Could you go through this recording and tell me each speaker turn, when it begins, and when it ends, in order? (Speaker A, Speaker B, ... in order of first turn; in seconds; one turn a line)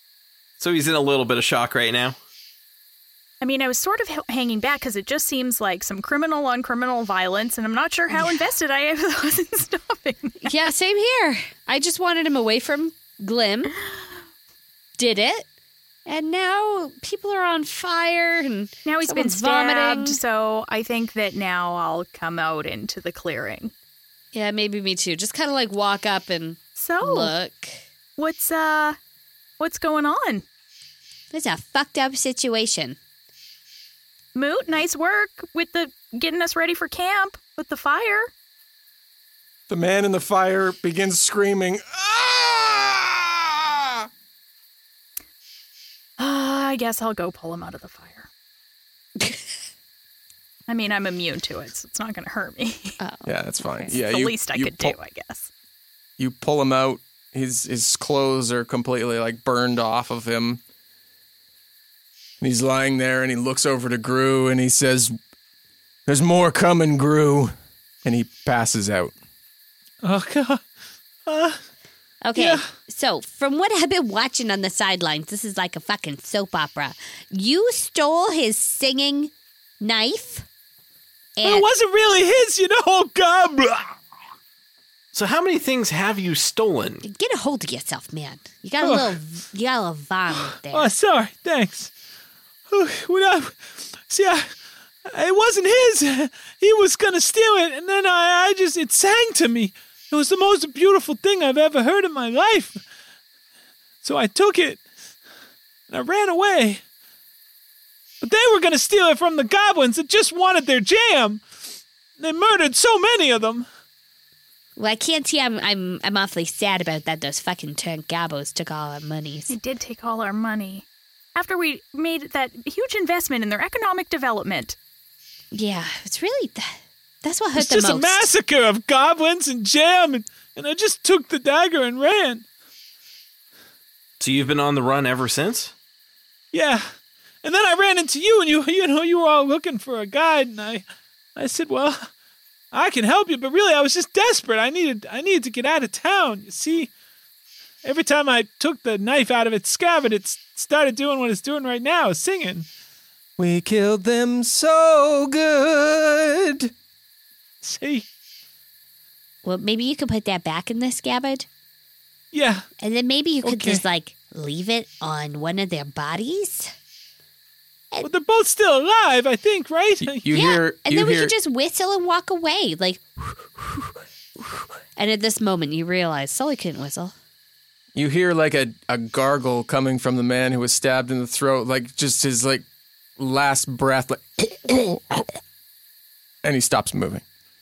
Speaker A: 0.6-2.2
Speaker B: 3.4-10.5
Speaker C: 10.4-13.8
Speaker C: 15.0-15.4
Speaker C: 16.1-20.2
Speaker B: 18.8-23.7
Speaker C: 24.3-27.7
Speaker B: 26.8-27.3
Speaker B: 28.2-29.0
Speaker B: 29.6-30.4
Speaker C: 31.3-33.0
Speaker B: 34.3-38.3
Speaker D: 39.7-44.1
Speaker B: 46.2-48.3
Speaker B: 50.7-53.0
Speaker C: 53.0-53.9
Speaker D: 53.2-55.0
Speaker B: 54.0-55.5
Speaker D: 56.2-60.6
Speaker D: 62.4-65.1
Speaker D: 66.0-69.1
Speaker E: 70.0-70.6
Speaker E: 71.2-71.6
Speaker C: 72.2-80.5
Speaker E: 72.3-72.6
Speaker C: 81.4-81.7
Speaker E: 81.4-83.9
Speaker A: 85.1-87.0
Speaker C: 87.0-90.9
Speaker E: 88.8-89.2
Speaker E: 90.7-91.9
Speaker E: 92.7-94.4
Speaker E: 95.1-102.8
Speaker E: 104.0-104.8
Speaker E: 105.9-106.8
Speaker E: 108.2-111.4
Speaker E: 112.2-113.7
Speaker C: 114.8-119.5
Speaker B: 119.5-124.8
Speaker C: 125.5-128.3
Speaker E: 127.5-132.4
Speaker A: 134.2-135.7
Speaker E: 136.5-136.8
Speaker E: 137.4-140.8
Speaker E: 141.3-142.1
Speaker E: 142.7-146.9
Speaker E: 147.8-152.7
Speaker D: 153.4-156.7
Speaker E: 157.6-158.1
Speaker C: 159.4-161.5
Speaker E: 162.3-162.7
Speaker C: 162.8-166.7
Speaker E: 163.4-163.8
Speaker E: 168.0-170.3
Speaker D: 170.2-171.3
Speaker C: 170.3-177.1
Speaker D: 177.9-182.6
Speaker D: 183.2-185.3
Speaker D: 186.4-187.2